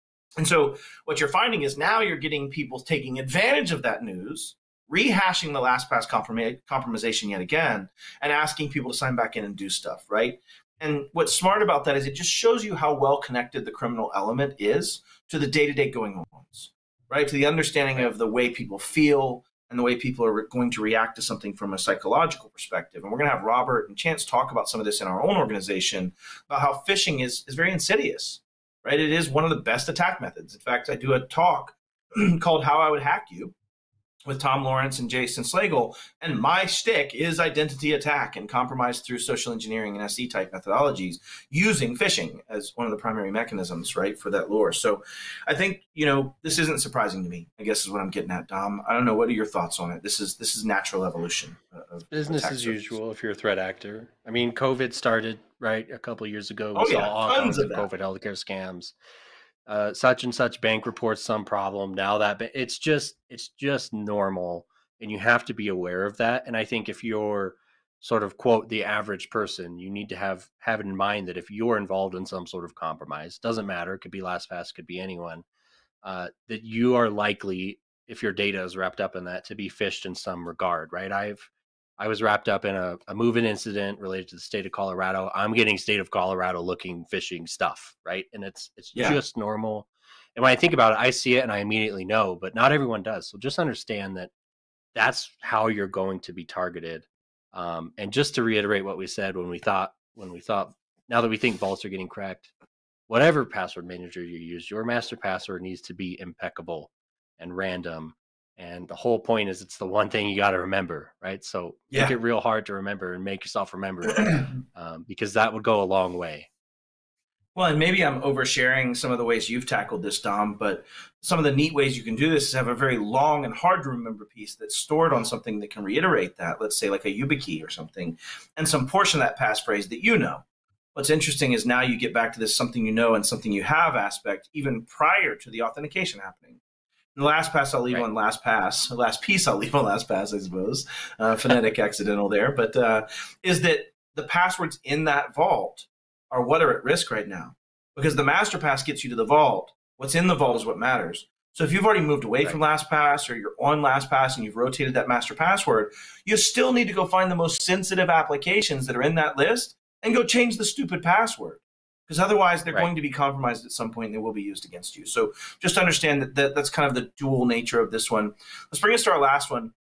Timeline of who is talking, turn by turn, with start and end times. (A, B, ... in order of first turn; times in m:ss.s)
0:00.4-0:33.6 A
0:34.3-0:53.0 A
0:52.1-0:58.9 B
0:56.8-0:57.9 A
0:59.7-1:15.4 B
1:16.0-1:34.3 B
1:29.0-1:29.2 A
1:35.0-1:42.5 B
1:43.1-1:56.5 B
1:54.1-1:54.5 A
1:57.6-2:10.4 A
2:11.0-2:16.6 A
2:17.2-2:49.7 A